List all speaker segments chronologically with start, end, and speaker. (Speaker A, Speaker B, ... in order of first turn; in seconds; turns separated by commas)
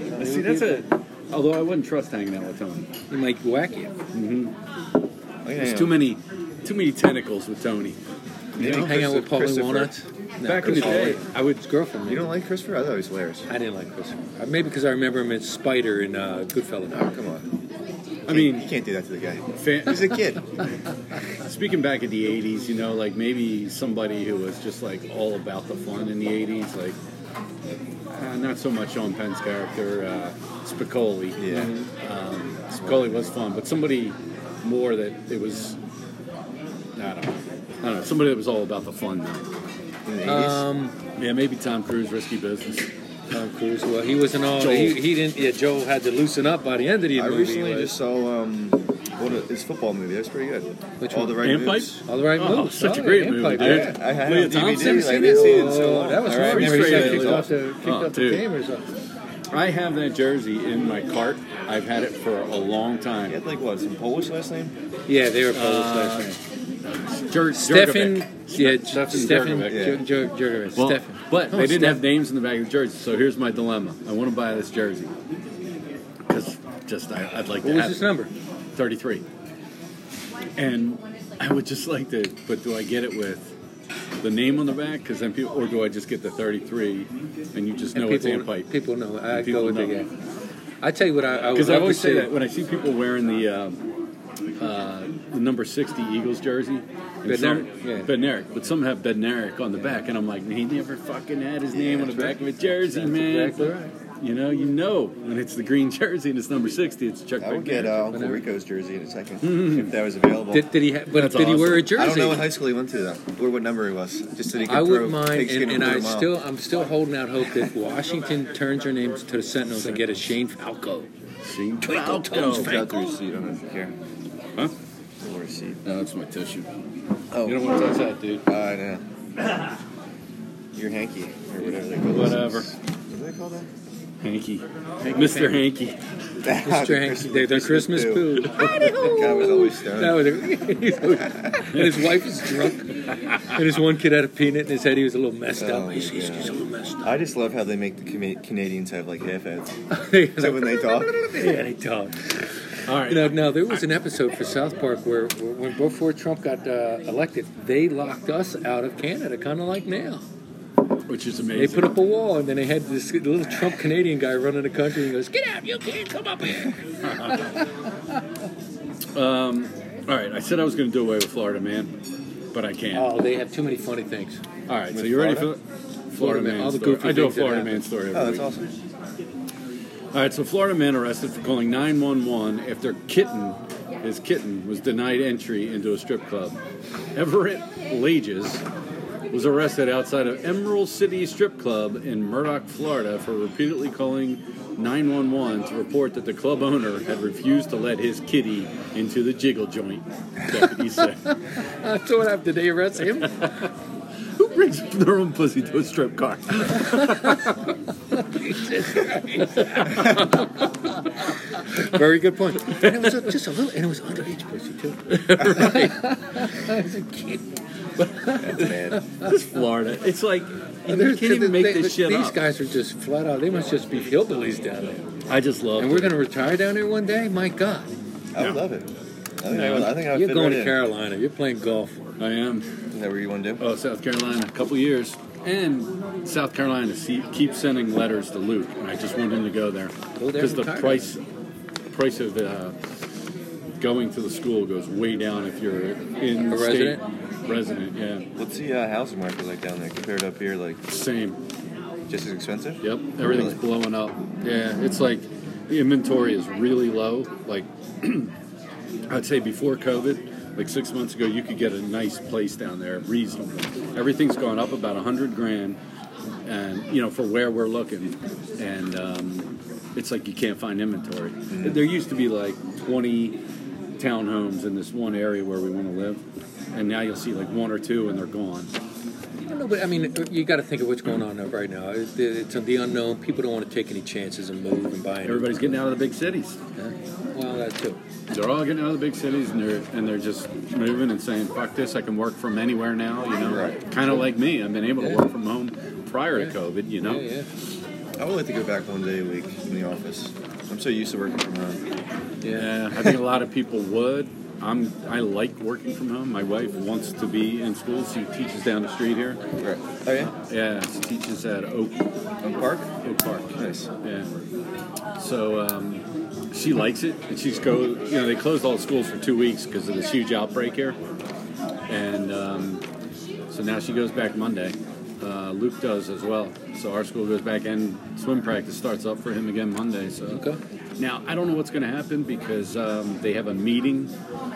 Speaker A: 0.1-0.8, Speaker B: 0.2-2.9, Speaker A: 3.1-3.9, Speaker B: 4.1-4.5, Speaker C: 5.4-6.0, Speaker B: 5.6-8.0, Speaker C: 8.6-9.9, Speaker B: 8.6-9.0, Speaker A: 8.6-12.3, Speaker B: 10.4-11.6, Speaker C: 10.6-11.1, Speaker C: 12.1-13.5, Speaker A: 13.5-17.1, Speaker C: 16.9-17.5, Speaker C: 18.3-20.5, Speaker B: 18.3-18.7, Speaker B: 19.5-20.4, Speaker B: 21.4-27.0, Speaker B: 28.1-35.8, Speaker C: 31.4-31.7, Speaker A: 31.5-31.9, Speaker C: 32.8-33.4, Speaker B: 37.0-39.5, Speaker C: 40.1-40.7, Speaker A: 40.2-41.0, Speaker B: 41.2-42.9, Speaker A: 43.3-48.0, Speaker B: 44.6-45.0, Speaker C: 47.1-52.0, Speaker A: 51.0-51.4, Speaker B: 51.4-55.7, Speaker A: 52.0-54.0, Speaker C: 53.6-57.5, Speaker A: 54.6-58.9, Speaker B: 56.3-58.5, Speaker B: 59.5-63.4, Speaker C: 63.3-64.7, Speaker A: 65.1-66.4, Speaker B: 65.5-70.0, Speaker A: 67.5-72.0, Speaker C: 69.7-70.0, Speaker B: 70.8-75.1, Speaker B: 76.3-78.2, Speaker A: 77.6-78.3, Speaker B: 78.8-79.2, Speaker B: 80.6-83.5, Speaker B: 84.2-88.7, Speaker A: 87.9-90.1, Speaker B: 89.3-90.0, Speaker A: 90.8-92.3, Speaker B: 91.5-93.8, Speaker B: 94.6-108.1, Speaker A: 97.3-98.1, Speaker C: 101.7-102.3, Speaker A: 102.2-103.9, Speaker C: 107.4-110.7, Speaker A: 108.1-108.4, Speaker B: 109.4-109.9, Speaker A: 110.5-112.5, Speaker B: 111.1-111.9, Speaker C: 111.9-116.3, Speaker A: 114.7-121.1, Speaker B: 119.8-120.1, Speaker B: 121.4-122.8, Speaker A: 121.8-122.9, Speaker C: 122.4-124.0, Speaker C: 125.2-125.8, Speaker B: 125.8-126.7, Speaker C: 127.3-127.8, Speaker B: 127.4-128.5, Speaker C: 128.5-129.0, Speaker C: 130.7-133.7, Speaker B: 132.1-132.7, Speaker B: 134.2-136.0, Speaker C: 135.0-135.4, Speaker A: 135.1-135.6, Speaker C: 136.4-140.3, Speaker A: 136.5-147.2, Speaker B: 141.7-142.0, Speaker B: 143.3-143.5, Speaker C: 145.6-149.8, Speaker A: 149.9-152.3, Speaker C: 150.4-151.4, Speaker B: 152.9-153.8, Speaker A: 152.9-160.2, Speaker B: 161.1-162.0, Speaker A: 161.6-167.7, Speaker B: 167.0-167.5, Speaker B: 169.2-171.9, Speaker B: 172.5-173.2, Speaker A: 172.9-174.4, Speaker B: 174.7-178.5, Speaker C: 174.9-175.5, Speaker A: 176.2-177.8, Speaker C: 178.1-178.7, Speaker B: 180.1-186.6, Speaker B: 187.2-188.6, Speaker B: 189.3-201.3, Speaker A: 200.6-203.5, Speaker B: 203.2-203.7, Speaker B: 204.4-207.6, Speaker A: 206.7-207.5, Speaker A: 208.1-210.5, Speaker B: 209.3-210.5, Speaker A: 211.7-217.5, Speaker B: 212.6-213.3, Speaker B: 215.1-216.1, Speaker B: 218.0-222.4, Speaker A: 218.2-219.3, Speaker C: 218.4-219.0, Speaker A: 220.9-225.1, Speaker B: 225.3-226.2, Speaker A: 225.8-227.9, Speaker C: 228.3-228.9, Speaker C: 229.4-230.8, Speaker A: 229.5-232.0, Speaker B: 232.2-232.7, Speaker C: 232.9-233.6, Speaker B: 233.6-241.2, Speaker A: 240.2-241.1, Speaker B: 241.9-242.8, Speaker B: 243.8-248.3, Speaker A: 246.5-247.0, Speaker C: 248.4-250.8, Speaker B: 250.9-251.4, Speaker C: 252.1-253.6, Speaker B: 252.8-258.3, Speaker B: 259.1-265.8, Speaker B: 266.4-273.4, Speaker C: 271.5-271.8, Speaker B: 274.0-276.2, Speaker B: 276.7-278.7, Speaker A: 279.5-285.9, Speaker B: 285.2-286.6, Speaker A: 286.8-288.0, Speaker B: 288.3-297.2, Speaker C: 293.4-293.8, Speaker A: 296.4-297.5, Speaker C: 298.2-301.8, Speaker A: 302.4-303.1, Speaker B: 302.5-309.4, Speaker C: 309.6-310.3, Speaker B: 310.3-312.0, Speaker C: 312.4-312.9, Speaker B: 313.0-314.3, Speaker C: 313.6-313.9, Speaker B: 315.2-321.0, Speaker B: 321.9-322.8, Speaker B: 323.5-330.4, Speaker A: 330.3-330.6, Speaker B: 331.0-334.1